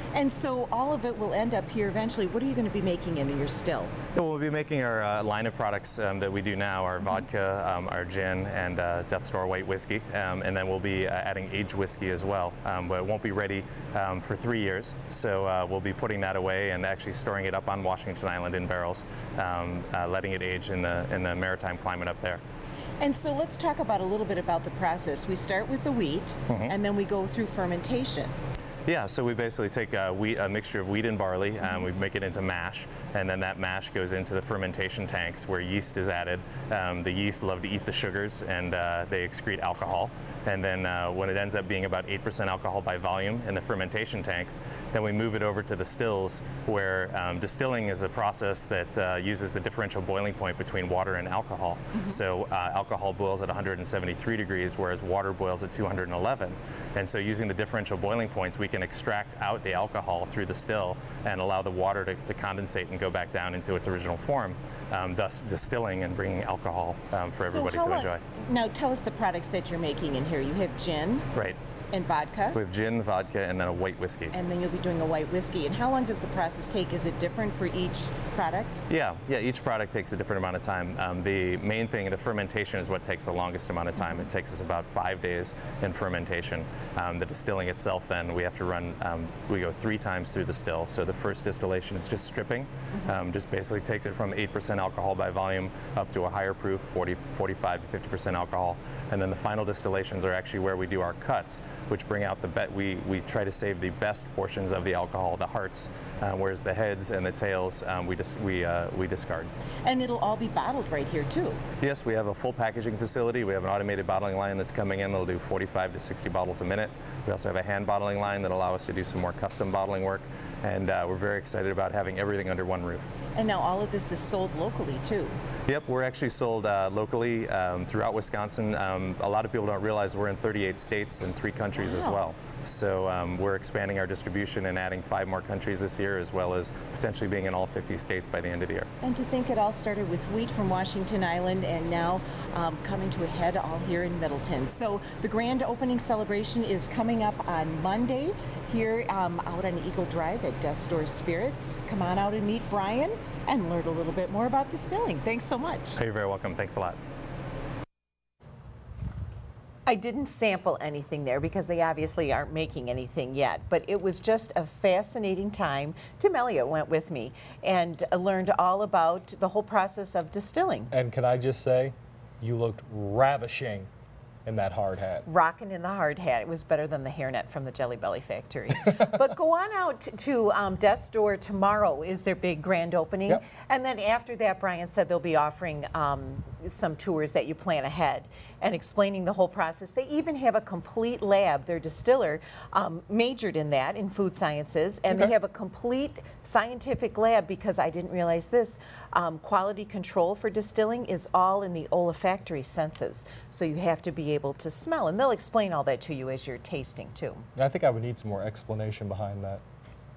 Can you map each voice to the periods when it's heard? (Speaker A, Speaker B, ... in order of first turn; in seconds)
Speaker A: 0.1-4.0, 23.0-28.3, 67.4-71.3, 71.9-72.6, 74.3-78.8, 109.8-111.6, 123.3-125.4, 131.8-132.2, 139.0-156.0, 159.9-170.9, 175.2-207.4
Speaker B: 4.1-22.4, 28.9-68.2, 72.5-74.3, 78.9-109.5, 111.8-123.1, 125.7-138.9, 156.0-157.0
Speaker C: 170.9-173.9, 174.4-175.2, 207.5-209.6